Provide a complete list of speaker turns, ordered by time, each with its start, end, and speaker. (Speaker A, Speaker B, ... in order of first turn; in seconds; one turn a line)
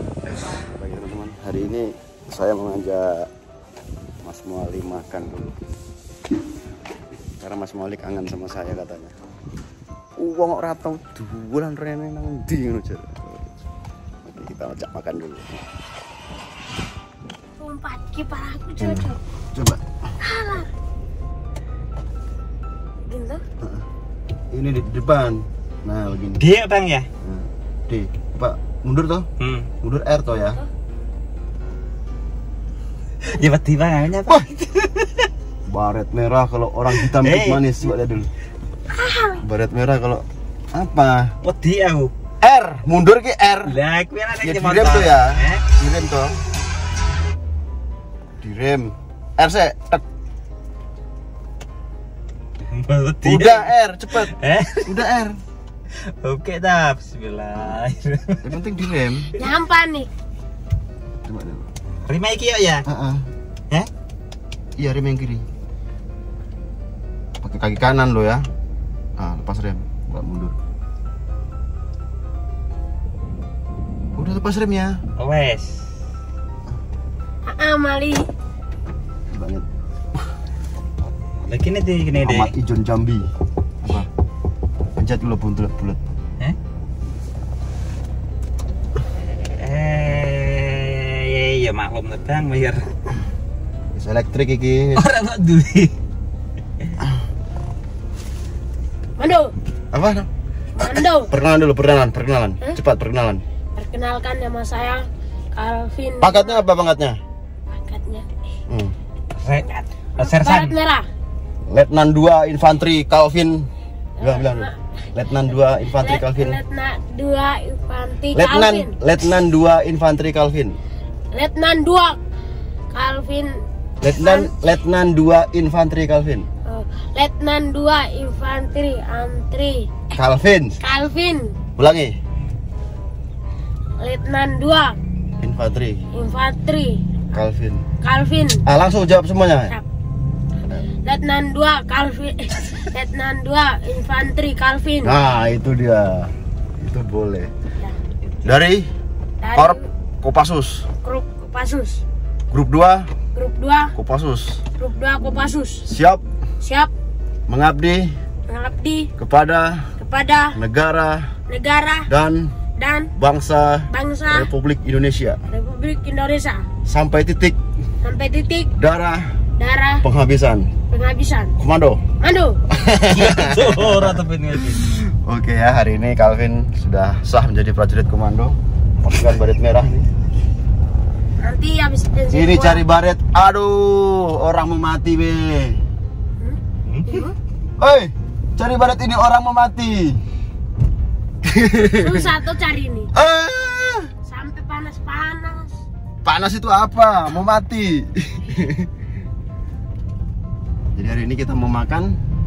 Speaker A: 0.4-3.3
Speaker A: 4.2-5.5
Speaker A: 7.4-9.2
Speaker A: 10.2-13.5
Speaker A: 14.2-15.6
Speaker B: 17.6-19.2
Speaker A: 18.8-19.9
Speaker B: 20.2-20.7
Speaker B: 23.1-23.4
Speaker A: 23.6-23.9
Speaker A: 24.5-26.4
Speaker C: 26.4-27.1
Speaker A: 27.2-29.3
Speaker C: 29.4-29.7
Speaker A: 29.8-30.6
Speaker B: 30.4-30.7
Speaker C: 33.2-35.3
Speaker A: 35.7-38.3
Speaker C: 37.0-37.6
Speaker B: 38.9-39.4
Speaker A: 39.4-41.3
Speaker C: 41.4-42.1
Speaker A: 42.4-43.8
Speaker C: 43.7-45.6
Speaker A: 44.4-46.4
Speaker A: 48.4-50.0
Speaker C: 52.7-55.0
Speaker A: 53.2-54.3
Speaker A: 54.8-55.4
Speaker C: 55.9-58.5
Speaker A: 58.4-59.3
Speaker B: 59.3-60.1
Speaker A: 61.2-61.8
Speaker C: 62.0-62.9
Speaker A: 62.8-63.3
Speaker A: 64.8-65.4
Speaker A: 67.4-68.4
Speaker A: 69.2-70.5
Speaker A: 74.2-75.0
Speaker C: 75.2-75.9
Speaker B: 77.5-78.2
Speaker A: 79.3-80.2
Speaker C: 81.4-82.5
Speaker A: 82.2-83.3
Speaker A: 83.8-84.1
Speaker A: 85.0-86.0
Speaker C: 89.4-92.9
Speaker A: 93.9-95.0
Speaker C: 95.0-95.9
Speaker B: 99.2-99.5
Speaker A: 99.9-100.3
Speaker B: 100.8-101.3
Speaker A: 100.8-103.4
Speaker B: 103.8-105.0
Speaker B: 105.5-106.7
Speaker A: 106.2-107.2
Speaker B: 107.7-108.3
Speaker A: 108.7-108.9
Speaker C: 109.3-110.8
Speaker B: 110.2-111.1
Speaker A: 111.7-113.7
Speaker B: 114.2-114.8
Speaker A: 114.2-116.6
Speaker B: 115.8-119.0
Speaker A: 118.3-120.8
Speaker B: 121.3-122.2
Speaker B: 122.9-123.6
Speaker A: 124.0-126.5
Speaker B: 124.2-124.6
Speaker B: 126.7-130.0
Speaker A: 130.1-130.8
Speaker B: 130.8-131.5
Speaker A: 131.8-132.2
Speaker B: 134.0-134.9
Speaker A: 135.4-136.0
Speaker B: 136.1-137.1
Speaker A: 137.3-137.8
Speaker B: 138.0-138.7
Speaker A: 138.7-139.7
Speaker B: 141.0-145.2
Speaker A: 145.0-147.5
Speaker A: 148.4-148.9
Speaker B: 149.4-149.9
Speaker A: 149.5-150.9
Speaker B: 151.0-152.0
Speaker A: 152.5-153.1
Speaker B: 153.3-153.9
Speaker A: 153.9-154.6
Speaker B: 154.8-155.8
Speaker A: 155.9-156.2
Speaker B: 156.6-156.9
Speaker A: 157.5-158.2
Speaker B: 158.5-159.1
Speaker A: 159.2-159.9
Speaker B: 160.0-160.6
Speaker A: 160.5-161.3
Speaker B: 161.5-162.1
Speaker A: 162.1-162.5
Speaker B: 162.8-163.1
Speaker A: 163.2-165.4
Speaker B: 163.9-164.5
Speaker B: 165.5-166.7
Speaker A: 166.8-167.6
Speaker B: 168.0-168.7
Speaker A: 168.8-169.3
Speaker B: 169.6-170.0
Speaker A: 170.0-170.7
Speaker B: 170.9-171.5
Speaker A: 171.6-172.0
Speaker B: 172.2-172.6
Speaker A: 172.7-180.1
Speaker C: 173.1-175.0
Speaker B: 181.4-182.8
Speaker A: 182.3-185.8
Speaker B: 186.4-187.3
Speaker A: 187.8-190.2
Speaker A: 191.4-192.3
Speaker B: 192.0-193.1
Speaker A: 193.1-194.1
Speaker B: 194.2-195.8
Speaker A: 196.2-198.9
Speaker A: 200.9-202.2